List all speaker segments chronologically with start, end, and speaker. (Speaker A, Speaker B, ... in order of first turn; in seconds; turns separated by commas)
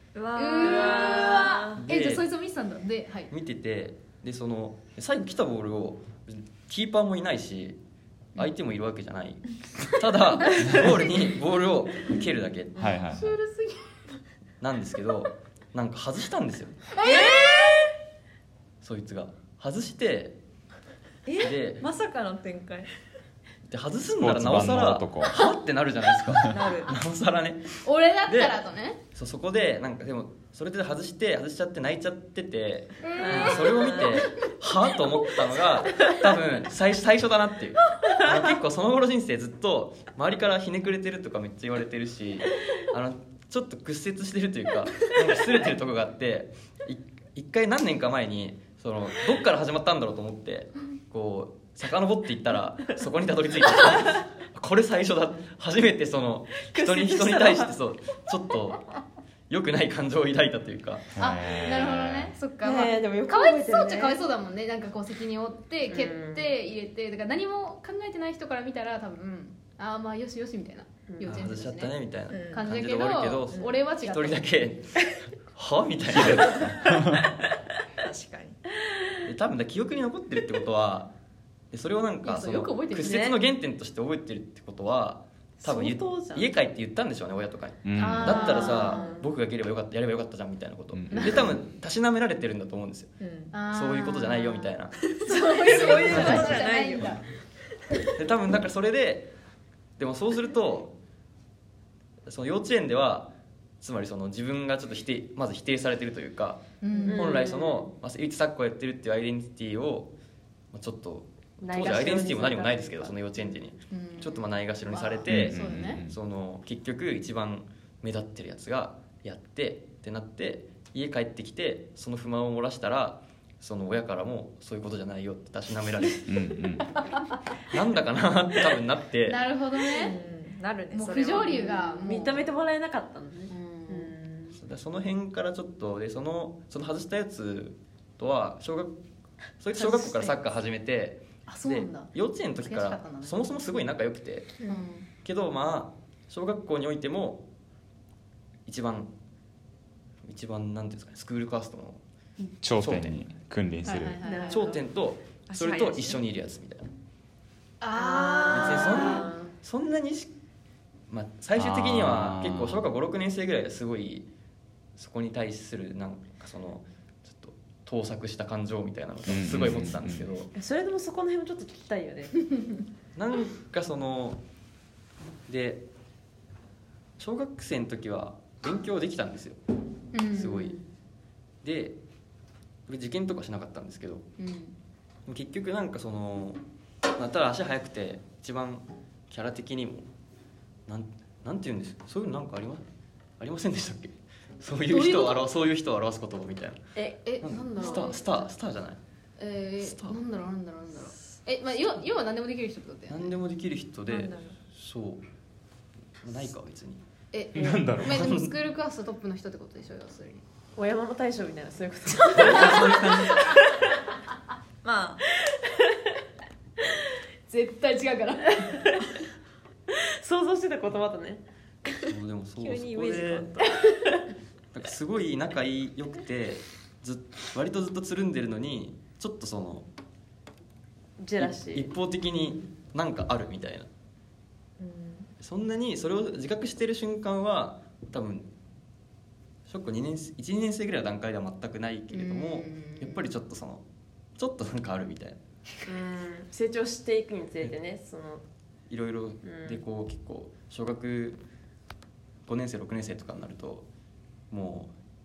Speaker A: 0.1-1.8, Speaker B: 0.3-3.3, Speaker C: 0.6-1.4, Speaker D: 1.7-2.2, Speaker D: 3.3-7.8, Speaker D: 8.4-12.8, Speaker E: 12.8-13.3, Speaker B: 13.2-13.7, Speaker D: 14.6-16.9, Speaker B: 17.0-17.6, Speaker A: 17.0-17.9, Speaker D: 18.8-20.4, Speaker A: 21.3-22.9, Speaker D: 21.4-21.9, Speaker D: 23.7-28.6, Speaker E: 24.2-25.4, Speaker A: 26.5-26.9, Speaker B: 27.8-29.0, Speaker D: 29.1-58.9, Speaker B: 33.0-34.4, Speaker C: 33.2-34.1, Speaker C: 56.8-57.4, Speaker D: 59.5-61.1, Speaker E: 61.1-62.3, Speaker B: 61.2-71.9, Speaker C: 62.6-64.2, Speaker C: 65.9-66.5, Speaker C: 71.1-71.4, Speaker D: 71.2-76.8, Speaker A: 72.3-72.7, Speaker B: 72.5-74.4, Speaker E: 76.1-77.2, Speaker C: 76.2-76.6, Speaker A: 76.6-77.2, Speaker A: 78.0-78.6, Speaker D: 79.2-81.1, Speaker D: 81.7-93.1, Speaker B: 82.2-83.4, Speaker C: 83.0-83.3, Speaker C: 85.6-86.5, Speaker E: 87.8-88.5, Speaker B: 88.0-89.0, Speaker C: 88.3-89.3, Speaker E: 90.9-91.4, Speaker B: 91.1-91.5, Speaker A: 93.2-93.5, Speaker B: 93.5-97.2, Speaker D: 93.7-95.0, Speaker A: 95.2-97.1, Speaker C: 95.5-97.1, Speaker D: 95.8-96.6, Speaker D: 98.2-99.3, Speaker D: 100.0-100.9, Speaker D: 102.2-110.1, Speaker B: 106.8-107.4, Speaker C: 106.9-107.9, Speaker D: 110.7-126.4, Speaker C: 111.6-113.2, Speaker B: 113.9-116.0, Speaker E: 115.3-116.1, Speaker E: 126.2-126.9, Speaker B: 127.0-127.4, Speaker D: 127.7-129.4, Speaker B: 129.2-130.2, Speaker A: 130.0-131.7, Speaker B: 130.9-132.5, Speaker C: 131.3-134.6, Speaker B: 133.5-134.1, Speaker D: 134.6-138.9, Speaker D: 139.6-144.6, Speaker B: 139.7-140.4, Speaker B: 141.5-142.1, Speaker B: 142.6-143.5, Speaker C: 144.6-144.8, Speaker B: 144.6-145.1, Speaker D: 145.2-147.4, Speaker D: 148.7-149.1, Speaker D: 150.2-152.0, Speaker E: 152.6-154.2, Speaker D: 152.8-153.2, Speaker B: 153.8-154.8, Speaker C: 154.2-154.8, Speaker D: 154.5-156.9, Speaker A: 155.5-156.2, Speaker B: 157.8-159.3, Speaker C: 157.9-159.5, Speaker D: 158.5-160.3, Speaker D: 161.1-164.3, Speaker E: 161.6-162.9, Speaker D: 164.9-170.5, Speaker E: 169.3-170.3, Speaker C: 170.6-172.6, Speaker D: 173.2-174.4, Speaker D: 175.5-175.8, Speaker D: 177.2-179.6, Speaker B: 180.1-180.7, Speaker D: 180.3-180.8, Speaker C: 180.4-180.8, Speaker D: 181.6-182.0, Speaker D: 182.9-184.3, Speaker B: 184.4-184.7, Speaker D: 185.2-186.6, Speaker D: 187.2-190.1, Speaker D: 190.9-192.8, Speaker D: 193.4-199.0, Speaker B: 194.9-195.5, Speaker C: 196.9-198.2, Speaker B: 197.2-198.2, Speaker B: 199.4-203.4, Speaker D: 199.8-200.2, Speaker D: 203.1-205.2, Speaker D: 206.2-207.0, Speaker B: 207.3-210.4, Speaker E: 207.6-208.3, Speaker D: 208.0-208.5, Speaker C: 210.8-213.8, Speaker D: 212.3-213.4, Speaker A: 214.8-215.2, Speaker B: 217.5-219.0, Speaker C: 219.9-224.3, Speaker D: 221.9-223.6, Speaker D: 224.7-229.9, Speaker C: 231.2-231.9, Speaker D: 231.4-233.9, Speaker C: 234.8-235.3, Speaker D: 235.4-238.5, Speaker D: 239.7-243.8, Speaker B: 242.1-243.3, Speaker D: 244.4-245.4, Speaker C: 245.8-248.4, Speaker D: 248.9-251.4, Speaker C: 249.4-249.8, Speaker D: 252.4-253.9, Speaker D: 254.5-254.9